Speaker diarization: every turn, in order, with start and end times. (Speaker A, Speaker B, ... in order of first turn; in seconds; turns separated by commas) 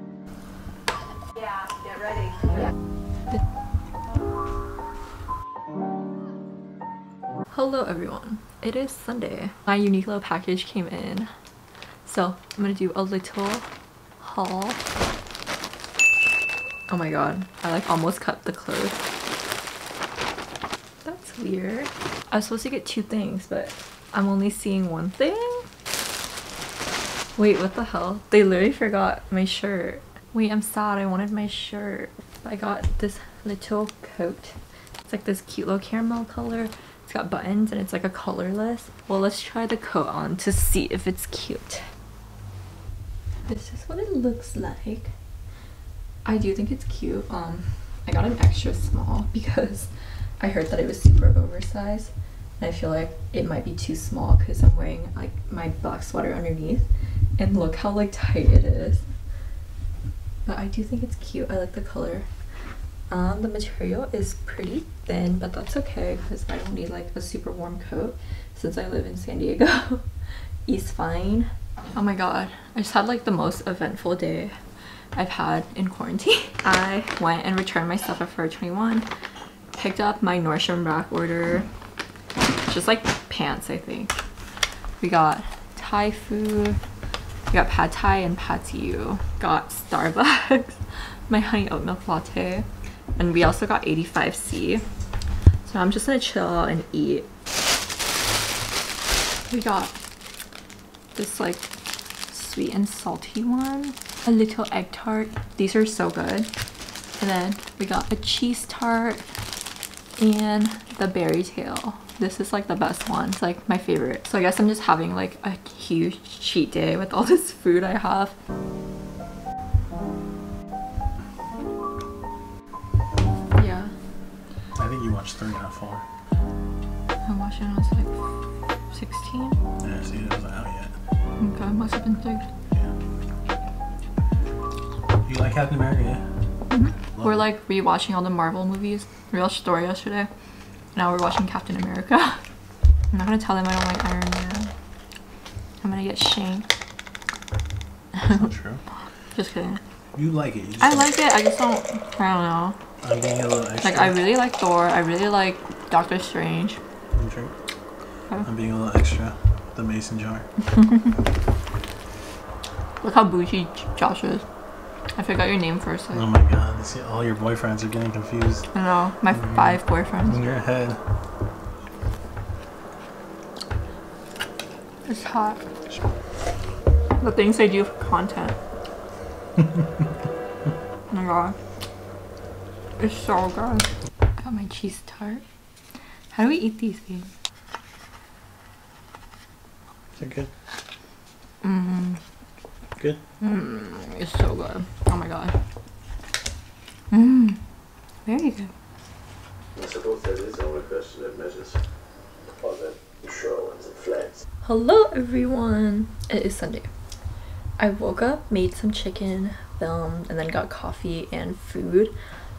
Speaker A: 7.5-11.3, Speaker A: 12.0-13.7, Speaker A: 14.2-14.8, Speaker A: 16.9-19.1, Speaker A: 21.0-25.6, Speaker A: 27.4-41.8, Speaker A: 43.5-45.1, Speaker A: 46.2-56.9, Speaker A: 57.4-59.0, Speaker A: 60.4-62.3, Speaker A: 63.1-70.1, Speaker A: 70.7-74.5, Speaker A: 75.1-79.1, Speaker A: 79.7-81.7, Speaker A: 82.7-84.2, Speaker A: 85.0-86.8, Speaker A: 87.5-94.8, Speaker A: 95.6-97.3, Speaker A: 99.5-100.0, Speaker A: 101.1-101.7, Speaker A: 102.3-106.5, Speaker A: 107.2-109.2, Speaker A: 110.2-118.3, Speaker A: 123.5-123.9, Speaker B: 124.8-126.0, Speaker A: 127.2-128.2, Speaker A: 128.9-129.6, Speaker B: 129.8-130.9, Speaker A: 131.4-132.5, Speaker B: 135.2-136.3, Speaker A: 136.7-140.3, Speaker B: 137.1-137.4, Speaker A: 140.9-142.4, Speaker A: 143.1-144.7, Speaker A: 145.8-146.7, Speaker A: 148.2-148.5, Speaker B: 148.3-148.8, Speaker A: 149.3-149.8, Speaker B: 150.1-151.1, Speaker A: 150.8-152.8, Speaker B: 153.0-154.2, Speaker A: 153.8-156.8, Speaker B: 157.1-157.5, Speaker B: 158.4-160.5, Speaker A: 163.0-164.4, Speaker A: 165.2-166.2, Speaker B: 166.1-168.7, Speaker A: 168.7-170.4, Speaker B: 169.3-171.0, Speaker A: 175.1-175.6, Speaker A: 177.2-178.6, Speaker A: 181.1-181.6, Speaker A: 183.0-185.4, Speaker A: 186.3-187.3, Speaker B: 190.2-190.5, Speaker A: 191.6-192.2, Speaker A: 193.4-195.6, Speaker A: 197.1-197.6, Speaker A: 198.2-198.7, Speaker C: 199.8-201.8, Speaker C: 202.6-204.4, Speaker A: 204.6-206.9, Speaker A: 207.8-212.1